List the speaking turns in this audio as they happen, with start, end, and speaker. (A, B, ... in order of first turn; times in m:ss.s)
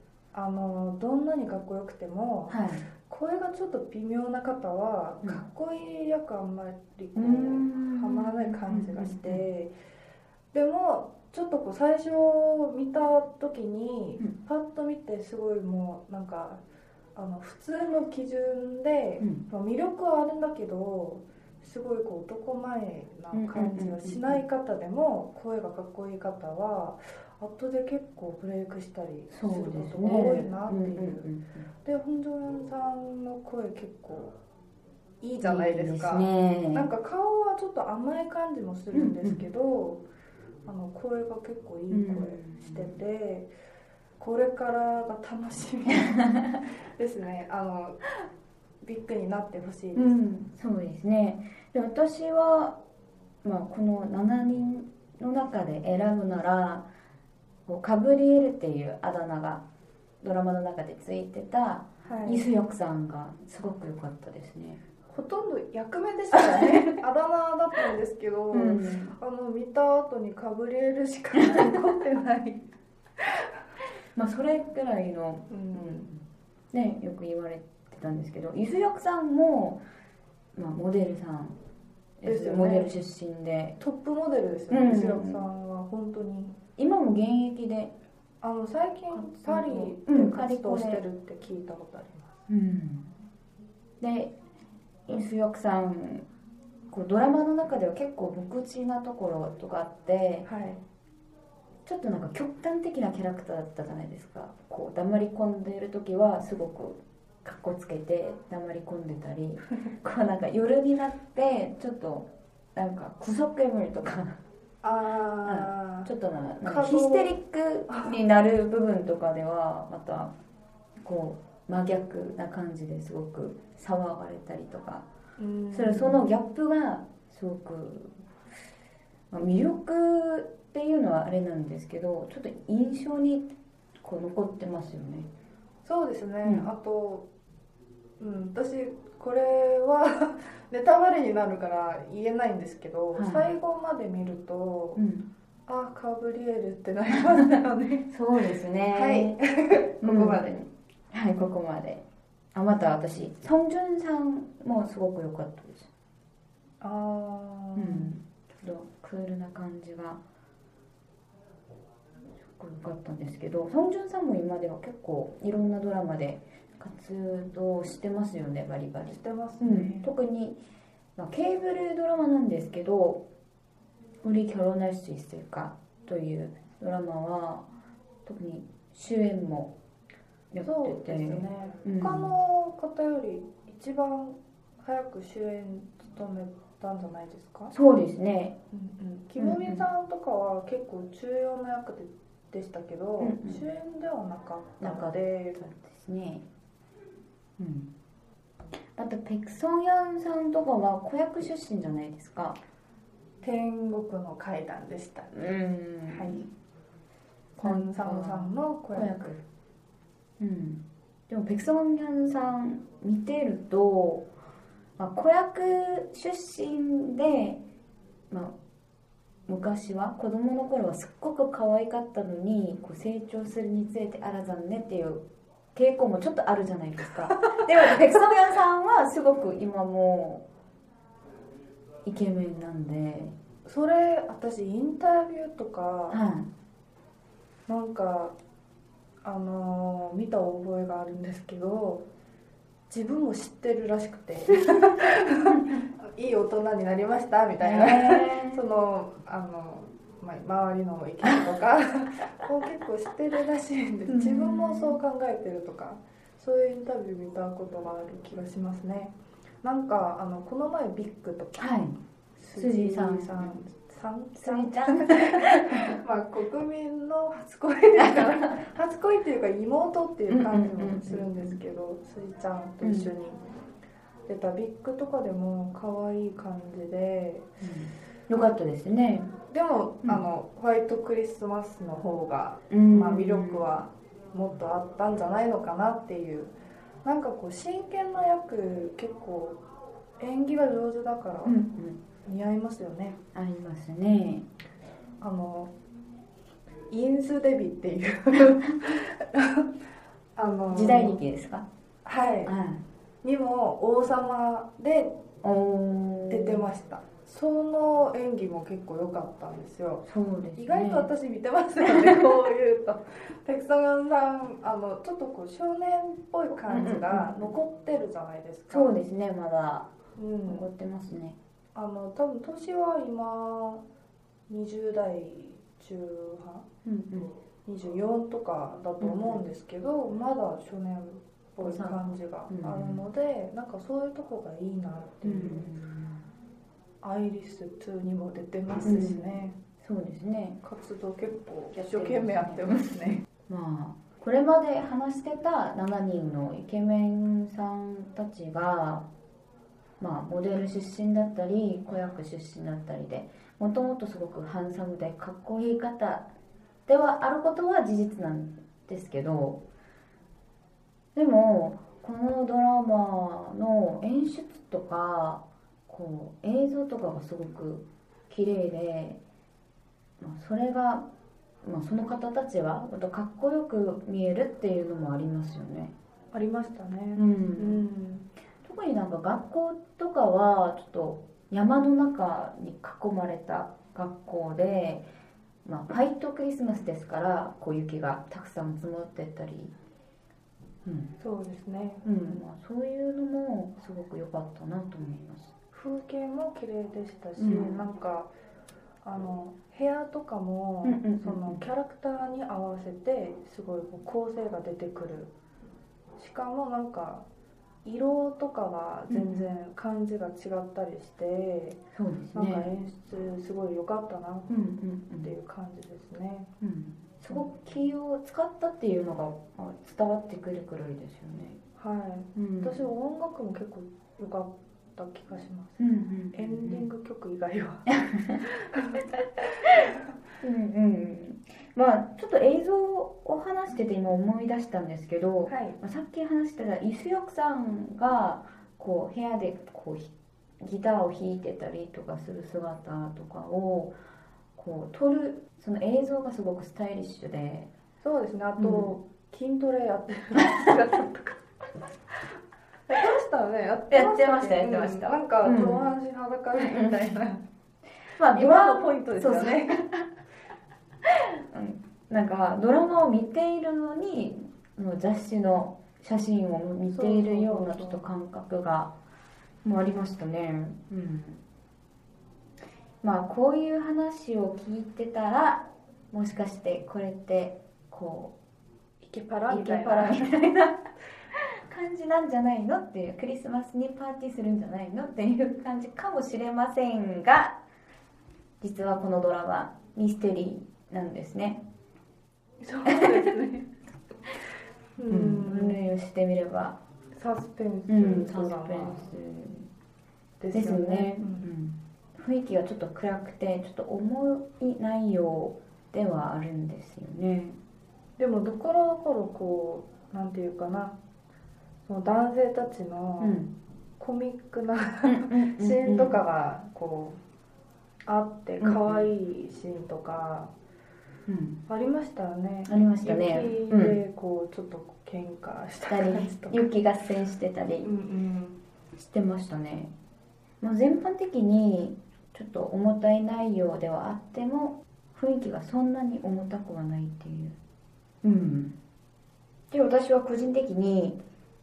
0:00.3-0:09.7 A
0:02.5-0:02.8 B
0:07.1-0:09.4 B
0:10.5-0:16.6 A
0:17.2-0:31.3 A
0:23.3-0:24.4 B
0:29.3-0:31.7 B
0:31.8-0:34.4 A
0:35.2-0:40.0 A
0:35.4-0:36.9 B
0:38.9-0:39.4 B
0:40.6-0:43.5 A
0:41.9-0:43.0 B
0:44.2-0:46.3 A
0:46.0-0:46.6 B
0:46.9-0:48.0 A
0:48.8-0:50.2 A
0:49.9-0:52.8 B
0:53.4-0:56.9 B
0:57.6-0:59.6 B
1:00.2-1:04.8 B
1:02.0-1:02.4 A
1:05.1-1:12.6 A
1:06.5-1:06.8 B
1:08.5-1:09.1 B
1:14.2-1:16.2 B
1:15.5-1:16.1 A
1:16.7-1:19.8 B
1:20.5-1:21.6 B
1:22.2-1:23.8 B
1:22.2-1:22.9 A
1:23.8-1:26.6 A
1:24.7-1:25.4 B
1:26.8-1:27.9 B
1:28.4-1:32.4 A
1:29.1-1:31.0 B
1:32.5-1:33.1 B
1:34.0-1:34.3 B
1:35.1-1:36.2 B
1:36.9-1:40.5 B
1:40.4-1:40.8 A
1:41.8-1:54.4 B
1:54.8-1:56.1 A
1:55.4-2:00.3 B
1:56.6-1:58.1 A
2:01.0-2:05.1 B
2:05.4-2:06.2 A
2:05.7-2:08.2 B
2:09.3-2:13.5 B
2:14.0-2:15.3 B
2:15.8-2:17.3 A
2:16.4-2:16.7 B
2:18.2-2:25.0 A
2:23.1-2:23.5 B
2:25.0-2:25.3 B
2:25.7-2:28.1 A
2:28.1-2:29.4 B
2:28.9-2:30.5 A
2:30.0-2:32.0 B
2:32.5-2:35.9 B
2:36.8-2:38.1 A
2:37.8-2:40.2 B
2:42.4-2:50.6 B
2:49.1-2:50.1 A
2:51.2-2:53.3 B
2:54.2-2:57.7 B
2:58.2-2:59.7 B
3:00.5-3:02.3 B
3:00.6-3:07.7 A
3:07.7-3:08.6 B
3:08.7-3:15.6 A
3:09.4-3:09.8 B
3:13.2-3:13.6 B
3:14.8-3:16.4 B
3:17.6-3:17.9 B
3:19.0-3:22.6 B
3:23.4-3:25.3 A
3:25.3-3:26.5 B
3:26.1-3:26.5 A
3:27.6-3:29.2 A
3:27.6-3:29.4 B
3:30.4-3:34.3 B
3:35.0-3:37.6 B
3:38.3-3:38.6 B
3:39.5-3:50.4 B
3:52.0-3:53.3 B
3:53.7-3:56.2 A
3:56.1-3:56.5 B
3:57.7-3:58.3 A
3:59.2-4:02.0 A
4:02.9-4:21.7 A
4:07.6-4:08.6 B
4:14.1-4:15.0 B
4:21.6-4:22.0 B
4:22.4-4:33.4 A
4:22.6-4:23.6 B
4:24.4-4:25.9 B
4:28.0-4:28.4 B
4:30.3-4:31.6 B
4:32.8-4:33.1 B
4:34.3-4:37.5 A
4:37.6-4:39.3 B
4:39.5-4:46.5 A
4:42.7-4:43.7 B
4:47.0-4:49.6 A
4:50.2-4:51.6 A
4:51.4-4:52.0 B
4:52.2-4:53.2 A
4:53.3-4:54.5 B
4:55.2-4:55.7 A
4:56.9-4:59.7 A
5:00.4-5:01.2 A
5:00.7-5:01.7 B
5:02.1-5:02.5 A
5:02.4-5:02.8 B
5:03.2-5:05.2 A
5:05.4-5:06.7 B
5:06.3-5:10.0 A
5:10.0-5:11.1 B
5:10.6-5:18.9 A
5:11.8-5:12.2 B
5:16.7-5:17.5 B
5:18.7-5:19.9 B
5:20.2-5:20.7 A
5:20.5-5:21.4 B
5:21.7-5:23.8 A
5:24.5-5:26.7 A
5:26.8-5:27.3 B
5:27.7-5:35.7 A
5:29.0-5:29.4 B
5:31.6-5:33.0 B
5:35.2-5:36.2 B
5:37.0-5:39.6 A
5:38.8-5:40.6 B
5:40.6-5:43.2 A
5:41.7-5:49.1 B
5:50.0-5:56.3 B
5:56.9-5:59.6 B
6:01.1-6:09.2 B
6:10.2-6:11.1 B
6:11.6-6:15.9 B
6:16.3-6:18.2 A
6:17.2-6:17.8 B
6:18.6-6:25.1 B
6:25.6-6:29.7 B
6:30.8-6:31.1 B
6:31.2-6:32.4 A
6:32.0-6:35.5 B
6:35.7-6:38.3 A
6:37.4-6:37.9 B
6:39.0-6:45.3 A
6:40.8-6:41.6 B
6:46.2-6:47.2 A
6:47.8-6:51.8 A
6:49.1-6:49.5 B
6:51.9-6:52.7 B
6:52.3-6:54.5 A
6:54.5-6:55.3 B
6:55.2-6:56.5 A
6:56.6-7:01.6 B
7:01.8-7:09.1 A
7:02.3-7:02.8 B
7:05.8-7:06.8 B
7:08.0-7:08.4 B
7:10.4-7:24.0 B
7:15.5-7:15.8 A
7:24.6-7:27.7 B
7:28.0-7:31.4 A
7:28.6-7:29.0 B
7:32.9-7:37.4 A
7:33.9-7:35.9 B
7:36.6-7:37.1 B
7:38.2-7:39.9 B
7:38.3-7:39.9 A
7:41.1-7:48.9 B
7:46.9-7:48.0 A
7:49.6-7:51.4 B
7:53.0-7:58.3 B
7:59.0-8:00.3 A
7:59.5-8:00.9 B
8:01.4-8:07.6 B
8:08.6-8:11.6 B
8:12.6-8:13.7 A
8:12.9-8:13.2 B
8:15.0-8:15.8 A
8:15.1-8:16.8 B
8:17.1-8:19.1 A
8:17.9-8:19.7 B
8:20.4-8:21.4 A
8:20.5-8:27.6 B
8:28.2-8:31.0 A
8:31.8-8:37.2 A
8:33.2-8:33.5 B
8:35.0-8:36.2 B
8:38.1-8:40.5 A
8:38.6-8:39.1 B
8:41.3-8:41.6 B
8:41.7-8:46.6 A
8:42.7-8:44.0 B
8:45.9-8:47.9 B
8:47.8-8:48.6 A
8:48.9-8:49.9 B
8:50.6-8:57.6 B
8:58.2-8:58.8 B
8:59.7-9:01.2 B